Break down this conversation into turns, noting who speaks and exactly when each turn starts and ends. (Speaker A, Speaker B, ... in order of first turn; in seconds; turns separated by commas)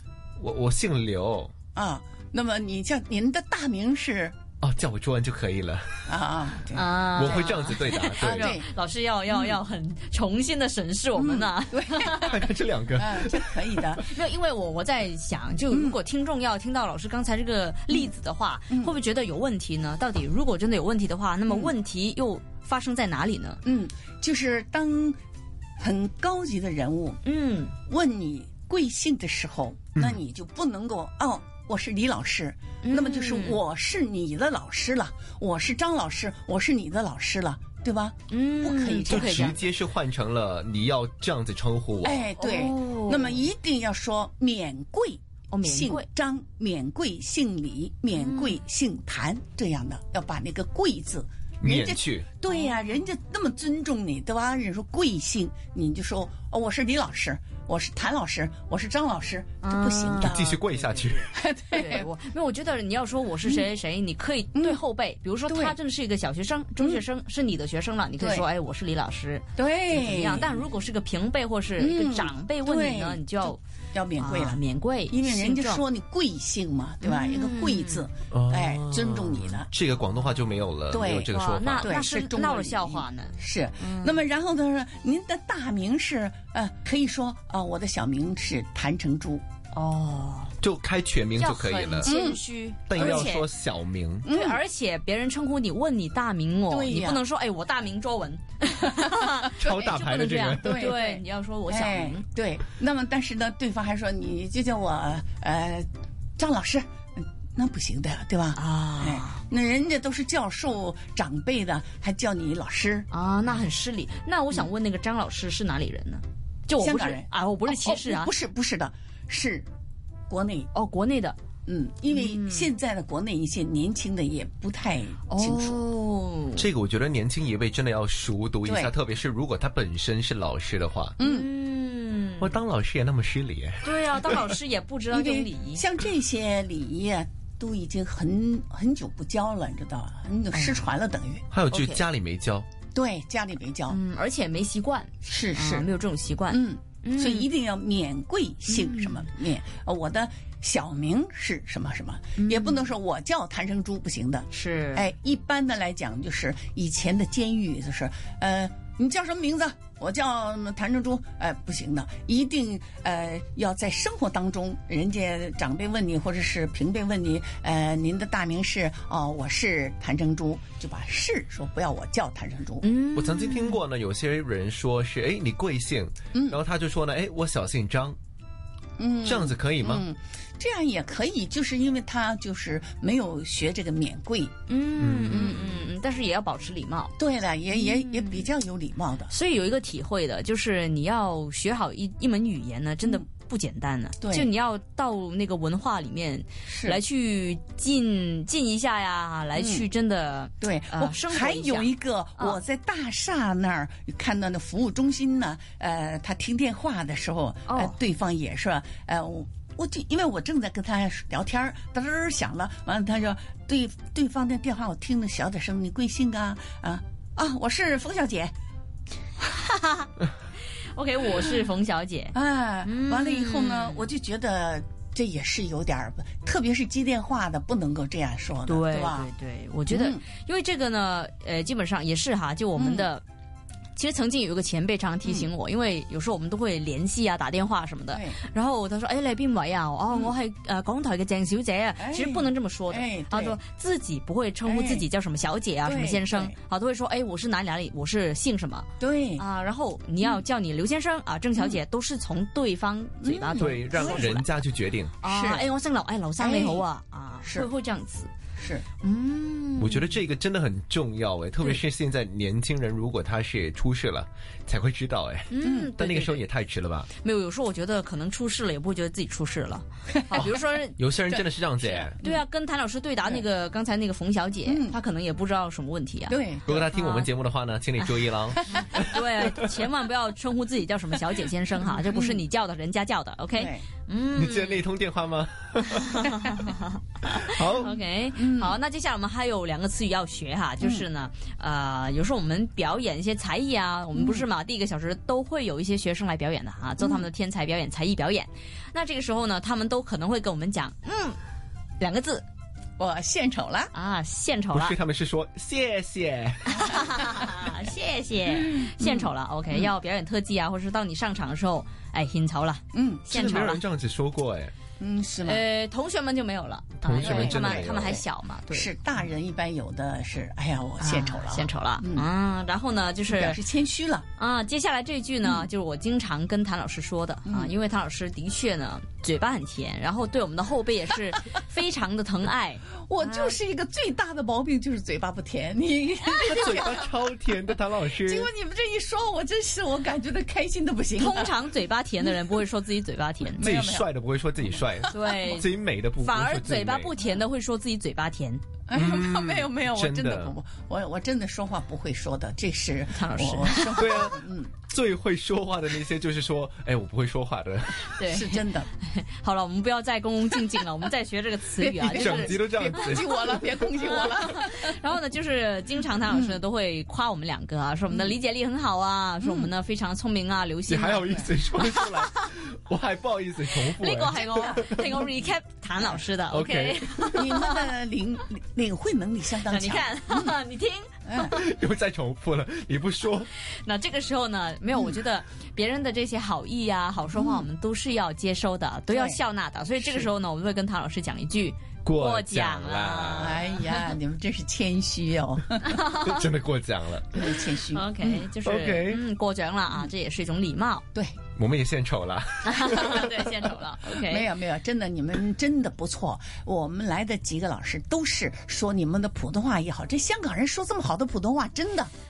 Speaker A: 0.4-1.5, Speaker B: 1.7-4.4, Speaker A: 4.6-6.1, Speaker B: 6.1-8.7, Speaker C: 6.7-12.4, Speaker A: 7.2-8.6, Speaker B: 9.3-9.6, Speaker B: 11.2-12.4, Speaker A: 12.1-14.0, Speaker B: 12.9-14.1, Speaker C: 14.1-23.6, Speaker B: 15.7-16.0, Speaker B: 18.7-19.0, Speaker B: 21.5-21.7, Speaker B: 23.6-25.2, Speaker B: 25.8-27.2, Speaker C: 27.2-27.7, Speaker B: 27.9-39.6, Speaker C: 32.8-33.6, Speaker C: 38.3-39.6, Speaker A: 39.1-42.2, Speaker B: 42.0-60.4, Speaker C: 42.4-43.4, Speaker C: 45.5-46.1, Speaker C: 48.2-48.6, Speaker A: 51.6-52.3, Speaker C: 59.6-73.6, Speaker A: 60.2-61.2, Speaker B: 61.2-62.1, Speaker B: 64.5-64.8, Speaker B: 65.5-65.8, Speaker B: 66.8-67.0, Speaker B: 68.2-68.5, Speaker B: 69.6-70.7, Speaker B: 71.8-79.7, Speaker C: 74.2-75.8, Speaker C: 77.0-78.1, Speaker A: 78.3-81.9, Speaker B: 80.9-81.3, Speaker C: 81.3-84.2, Speaker B: 81.8-89.4, Speaker C: 89.7-90.5, Speaker A: 90.6-92.1, Speaker C: 91.4-93.5, Speaker B: 92.0-92.4, Speaker A: 92.9-94.3, Speaker B: 93.0-93.3, Speaker B: 94.2-94.6, Speaker C: 94.3-102.2, Speaker B: 96.7-97.2, Speaker B: 99.0-100.0, Speaker A: 99.6-100.8, Speaker B: 100.6-113.1, Speaker C: 108.5-109.4, Speaker C: 113.1-118.3, Speaker B: 116.8-119.7, Speaker B: 120.3-120.7, Speaker C: 120.7-121.4, Speaker B: 121.7-125.8, Speaker C: 122.1-122.7, Speaker C: 125.3-126.7, Speaker A: 126.6-131.2, Speaker B: 128.7-128.9, Speaker B: 131.2-131.5, Speaker C: 131.2-132.6, Speaker A: 132.4-134.4, Speaker C: 133.8-135.8, Speaker B: 135.1-141.5, Speaker C: 140.5-140.8, Speaker A: 141.5-142.7, Speaker C: 141.7-142.0, Speaker B: 142.9-144.0, Speaker C: 143.9-147.5, Speaker B: 145.2-145.9, Speaker B: 146.5-172.8, Speaker C: 148.7-149.2, Speaker C: 152.4-152.9, Speaker C: 154.5-155.1, Speaker C: 172.8-173.8, Speaker A: 173.2-178.2, Speaker B: 176.3-176.6, Speaker B: 179.0-184.5, Speaker A: 179.2-180.0, Speaker C: 184.7-187.1, Speaker A: 185.0-185.5, Speaker B: 185.3-185.8, Speaker B: 187.2-189.3, Speaker C: 187.7-188.5, Speaker C: 189.3-202.6, Speaker B: 194.2-194.5, Speaker B: 196.7-197.0, Speaker B: 199.6-199.9, Speaker B: 200.6-218.5, Speaker C: 207.7-207.9, Speaker C: 219.5-220.1, Speaker C: 220.9-224.0, Speaker B: 222.3-229.3, Speaker C: 228.7-233.2, Speaker B: 229.9-230.2, Speaker B: 232.8-233.1, Speaker C: 234.0-248.9, Speaker B: 238.1-238.4, Speaker B: 242.0-243.6, Speaker B: 244.7-245.1, Speaker B: 245.8-246.6, Speaker B: 249.0-249.4, Speaker C: 249.4-254.5, Speaker B: 253.2-254.3, Speaker A: 253.6-255.2, Speaker C: 255.2-258.3, Speaker B: 255.2-255.7, Speaker B: 256.4-256.9, Speaker B: 257.4-257.7, Speaker B: 258.6-258.8, Speaker C: 259.0-260.1, Speaker A: 259.8-267.1, Speaker C: 265.5-266.4, Speaker B: 265.6-265.9, Speaker C: 267.2-271.0, Speaker B: 270.1-270.5, Speaker A: 270.4-272.2, Speaker C: 271.8-276.4, Speaker B: 274.7-275.0, Speaker B: 276.3-276.9, Speaker A: 276.7-279.5, Speaker C: 276.9-277.3, Speaker C: 278.7-284.8, Speaker B: 281.9-282.4, Speaker B: 283.6-283.9, Speaker A: 284.4-286.5, Speaker C: 285.9-301.4, Speaker A: 287.3-287.9, Speaker B: 288.3-288.8, Speaker B: 294.1-294.5, Speaker B: 297.0-297.3, Speaker C: 302.0-302.4, Speaker B: 303.0-303.9, Speaker C: 303.9-304.9, Speaker A: 304.7-307.2, Speaker C: 306.7-313.8, Speaker B: 308.6-309.9, Speaker B: 312.9-313.3, Speaker A: 313.3-314.7, Speaker B: 315.0-315.6, Speaker C: 315.4-318.9, Speaker A: 317.0-318.2, Speaker B: 317.2-322.3, Speaker C: 321.0-323.6, Speaker B: 323.3-324.3, Speaker C: 324.4-333.6, Speaker B: 325.4-325.7, Speaker B: 327.4-327.7, Speaker B: 333.1-337.1, Speaker A: 336.5-338.5, Speaker B: 338.2-341.6, Speaker C: 341.2-343.7, Speaker B: 342.2-342.6, Speaker B: 343.5-344.1, Speaker A: 343.6-347.2, Speaker B: 344.8-345.4, Speaker C: 345.1-348.6, Speaker B: 348.9-354.7, Speaker A: 348.9-350.6, Speaker C: 353.1-354.2, Speaker A: 354.0-358.1, Speaker C: 358.1-363.2, Speaker B: 358.3-358.9, Speaker B: 361.8-365.0, Speaker A: 362.1-363.3, Speaker C: 364.0-372.3, Speaker B: 366.3-366.6, Speaker B: 369.4-369.7, Speaker A: 370.9-375.0, Speaker C: 373.7-377.9, Speaker B: 374.4-375.3, Speaker A: 376.5-377.4, Speaker B: 377.3-380.6, Speaker C: 379.7-381.5, Speaker B: 381.2-381.6, Speaker A: 381.4-383.5, Speaker C: 383.7-393.6, Speaker B: 387.3-387.7, Speaker B: 389.1-389.4, Speaker B: 390.0-390.3, Speaker A: 392.1-393.7, Speaker B: 393.3-396.0, Speaker C: 395.8-396.4, Speaker A: 396.1-397.3, Speaker B: 397.3-398.5, Speaker C: 397.9-401.1, Speaker A: 398.6-399.2, Speaker A: 401.6-403.4, Speaker C: 402.6-404.5, Speaker B: 404.0-412.1